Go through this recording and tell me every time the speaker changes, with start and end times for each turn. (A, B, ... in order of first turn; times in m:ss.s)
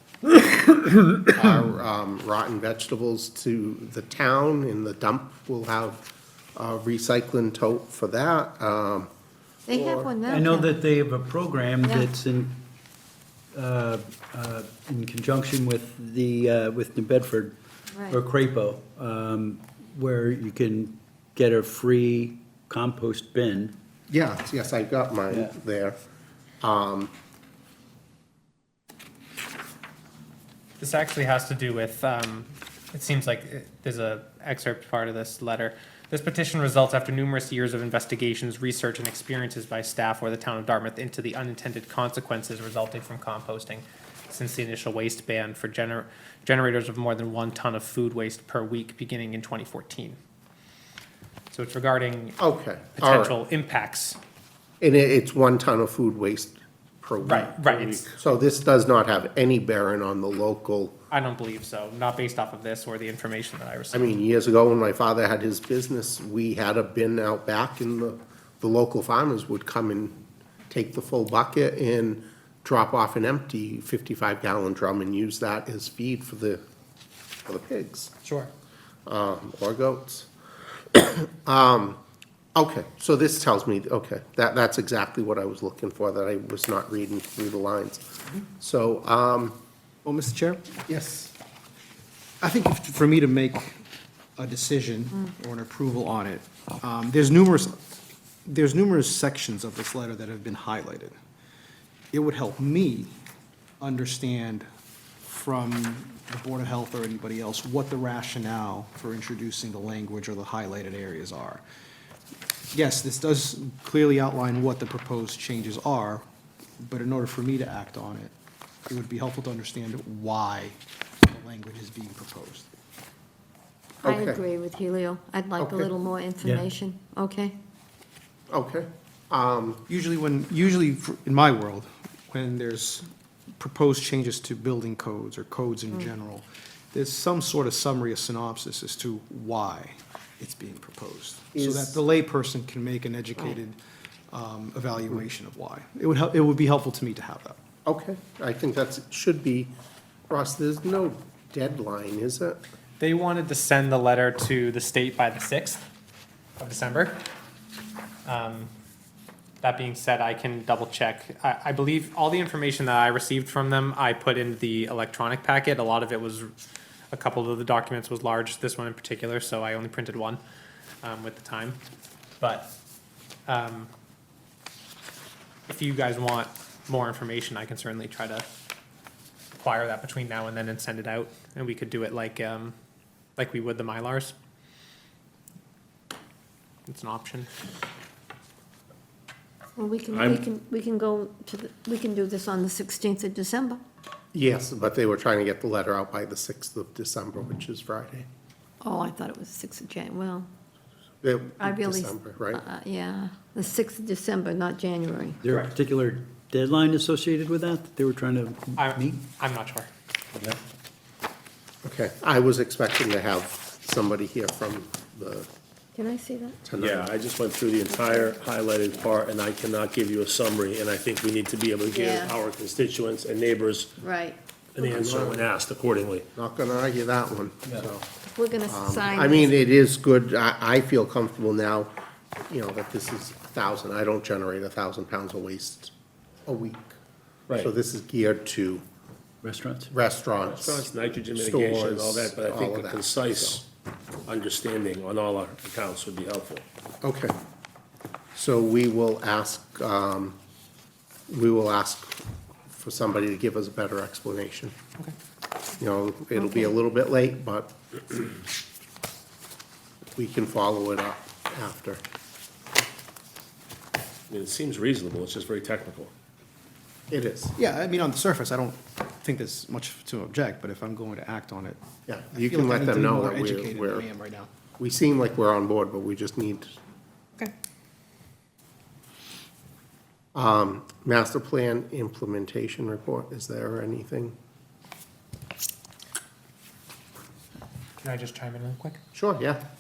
0:01.2-0:06.0 A
0:06.6-0:09.1 A
0:09.7-0:10.8 B
0:09.7-0:10.1 A
0:10.3-0:12.6 C
0:11.8-0:12.1 B
0:13.5-0:17.6 C
0:17.9-0:18.2 B
0:18.1-0:23.7 C
0:24.1-0:26.0 A
0:25.3-0:25.6 C
0:26.6-0:27.1 A
0:30.8-0:50.2 D
0:51.5-0:52.4 D
0:52.4-0:53.4 A
0:53.0-0:54.2 D
0:54.8-1:01.0 A
0:57.2-0:58.1 D
0:57.7-0:58.0 E
1:01.1-1:04.1 D
1:03.9-1:10.2 A
1:10.7-1:16.6 A
1:17.5-1:18.1 A
1:18.2-1:18.5 D
1:19.1-1:20.3 A
1:20.9-1:22.0 A
1:22.6-1:28.0 A
1:28.6-1:29.6 A
1:30.0-1:30.7 F
1:30.9-1:31.3 A
1:32.4-1:33.8 F
1:34.4-1:37.8 F
1:38.5-1:41.2 F
1:42.1-1:43.2 F
1:43.8-1:44.6 F
1:45.3-1:51.6 F
1:52.7-1:56.2 F
1:56.8-1:58.3 F
1:58.9-2:02.7 F
2:04.0-2:07.6 B
2:04.0-2:04.4 A
2:05.6-2:05.9 A
2:08.5-2:09.8 A
2:09.9-2:13.1 F
2:13.6-2:23.8 F
2:21.5-2:22.0 A
2:24.3-2:27.6 F
2:27.9-2:29.7 A
2:30.3-2:32.6 A
2:33.0-2:35.8 D
2:36.6-2:37.2 D
2:38.3-2:38.7 D
2:39.6-2:46.5 D
2:47.1-2:50.4 D
2:51.0-2:51.8 D
2:52.4-2:52.7 D
2:53.5-2:53.9 D
2:55.7-2:58.5 D
2:59.6-3:02.7 D
3:03.4-3:04.4 D
3:06.9-3:07.5 D
3:09.8-3:13.8 B
3:10.1-3:10.4 E
3:14.3-3:18.3 A
3:18.8-3:20.5 B
3:21.2-3:22.6 A
3:21.6-3:25.4 B
3:25.4-3:29.2 C
3:28.8-3:29.9 D
3:31.8-3:35.5 A
3:35.9-3:36.6 B
3:36.7-3:37.1 A
3:36.7-3:43.9 E
3:37.9-3:38.3 B
3:41.9-3:42.3 B
3:44.0-3:44.4 B
3:44.8-3:46.3 E
3:44.8-3:45.4 A
3:46.4-3:48.1 A
3:48.2-3:49.6 B
3:48.7-3:51.9 A
3:52.5-3:55.9 A
3:56.5-3:56.9 A
3:57.5-3:58.8 A
3:59.4-3:59.9 C
3:59.9-4:03.6 A
4:00.4-4:03.6 E
4:04.3-4:06.6 E
4:07.0-4:07.3 A
4:08.4-4:10.4 A
4:11.3-4:12.2 A
4:12.7-4:14.8 A
4:15.8-4:18.4 A
4:20.2-4:22.0 A
4:24.3-4:26.1 E
4:27.1-4:27.6 A
4:27.6-4:31.8 F
4:32.1-4:34.1 A
4:32.3-4:34.5 F
4:34.8-4:36.8 A
4:40.3-4:44.3 A
4:48.0-4:49.0 D
4:49.1-4:49.6 A